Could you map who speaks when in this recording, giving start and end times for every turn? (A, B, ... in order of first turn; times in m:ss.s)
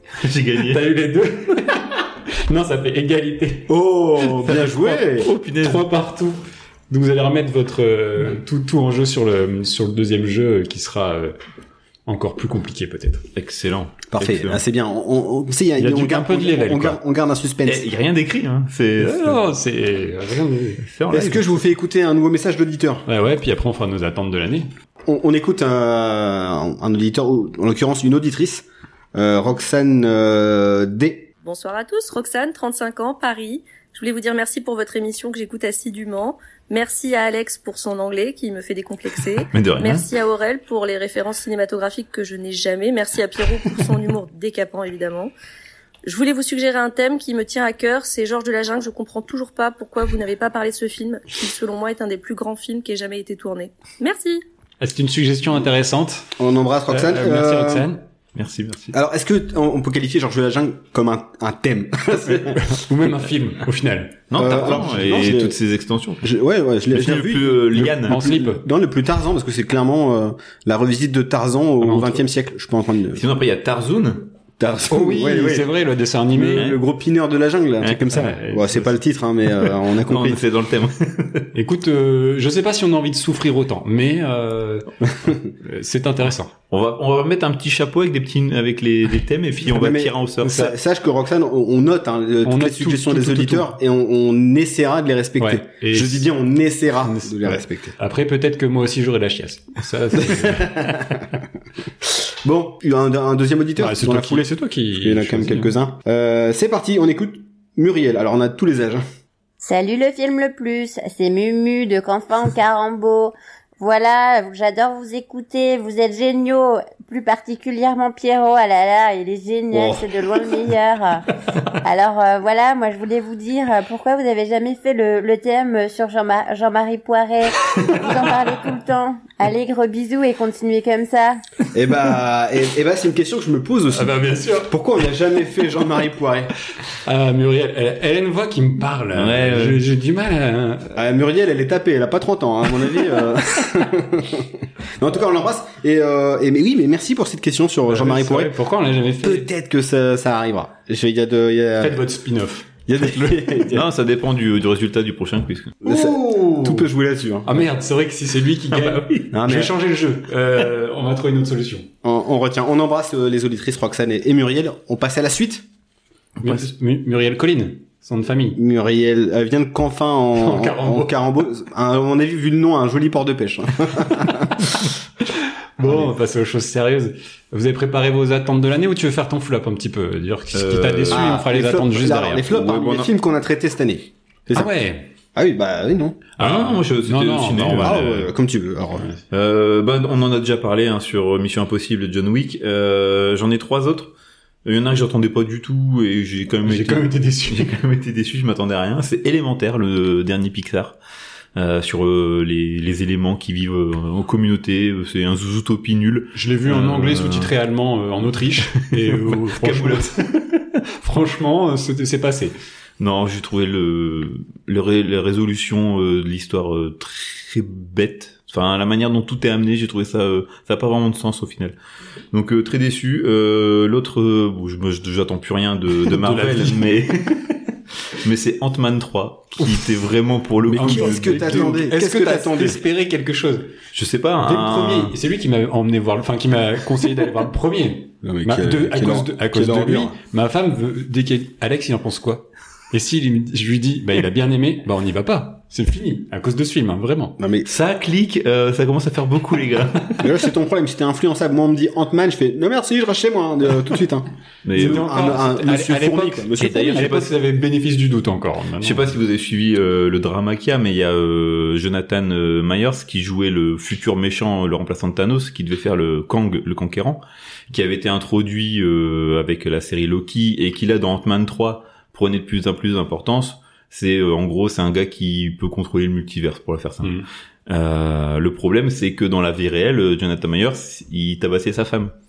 0:00.2-0:00.9 A
0:00.6-0:03.7 B
0:03.7-0:05.3 C
0:04.4-0:05.9 A
0:05.6-0:11.4 B
0:12.1-0:13.2 B
0:13.4-0:14.6 A
0:14.1-0:17.8 C
0:15.8-0:17.0 B
0:17.6-0:19.4 A
0:19.0-0:20.8 B
0:20.8-0:21.6 A
0:21.1-0:23.0 C
0:23.1-0:24.7 B
0:25.0-0:31.3 C
0:31.4-0:45.3 D
0:39.5-0:40.1 A
0:46.0-0:54.4 D
0:54.8-0:56.3 B
0:56.4-0:57.9 C
0:56.9-0:58.0 B
0:58.3-0:58.9 A
0:58.9-1:02.6 C
1:02.2-1:04.2 B
1:04.3-1:06.2 A
1:04.3-1:05.6 C
1:06.2-1:13.2 C
1:06.9-1:08.2 A
1:07.8-1:08.6 B
1:11.8-1:12.2 B
1:13.1-1:14.3 A
1:14.6-1:15.7 C
1:14.9-1:16.7 B
1:16.3-1:20.4 C
1:18.1-1:19.0 B
1:20.0-1:21.5 A
1:21.5-1:26.5 B
1:26.7-1:30.6 A
1:29.6-1:37.9 C
1:30.4-1:30.7 B
1:32.4-1:33.7 B
1:35.4-1:36.3 B
1:37.0-1:41.1 B
1:40.2-1:41.0 C
1:42.2-1:49.0 C
1:43.8-1:45.7 B
1:49.6-2:01.2 E
2:01.8-2:11.4 E
2:11.7-2:16.5 C
2:13.9-2:14.7 B
2:17.0-2:20.9 B
2:19.1-2:19.8 A
2:21.0-2:28.5 C
2:27.9-2:29.5 B
2:29.2-2:32.0 C
2:31.8-2:33.8 B
2:32.9-2:33.8 C
2:33.7-2:35.8 A
2:35.8-2:37.6 C
2:35.8-2:36.8 B
2:37.4-2:41.9 B
2:38.7-2:39.2 A
2:39.3-2:39.7 C
2:42.0-2:45.6 C
2:46.4-2:48.6 B
2:48.6-2:54.6 C
2:50.4-2:51.2 B
2:55.8-3:02.5 B
2:55.8-2:56.1 C
3:00.5-3:01.2 A
3:01.1-3:04.7 C
3:02.5-3:03.1 A
3:04.5-3:05.1 B
3:05.3-3:06.2 C
3:06.4-3:08.0 B
3:06.4-3:08.3 A
3:07.7-3:09.1 C
3:09.3-3:14.1 A
3:14.6-3:21.0 A
3:16.6-3:17.7 B
3:21.6-3:27.5 A
3:26.3-3:30.1 B
3:28.7-3:30.7 A
3:31.0-3:32.5 B
3:33.0-3:41.8 A
3:42.3-3:47.6 A
3:46.1-3:46.9 B
3:48.2-3:51.8 A
3:50.6-3:52.8 C
3:50.7-3:53.7 B
3:53.9-3:55.1 A
3:54.4-4:07.4 B
3:58.2-4:00.2 C
4:07.4-4:07.7 C
4:07.6-4:10.3 A
4:10.2-4:17.2 C
4:14.6-4:15.1 A
4:14.8-4:19.0 B
4:16.6-4:17.3 A
4:18.8-4:37.2 A
4:37.0-4:37.2 B
4:37.7-4:42.1 A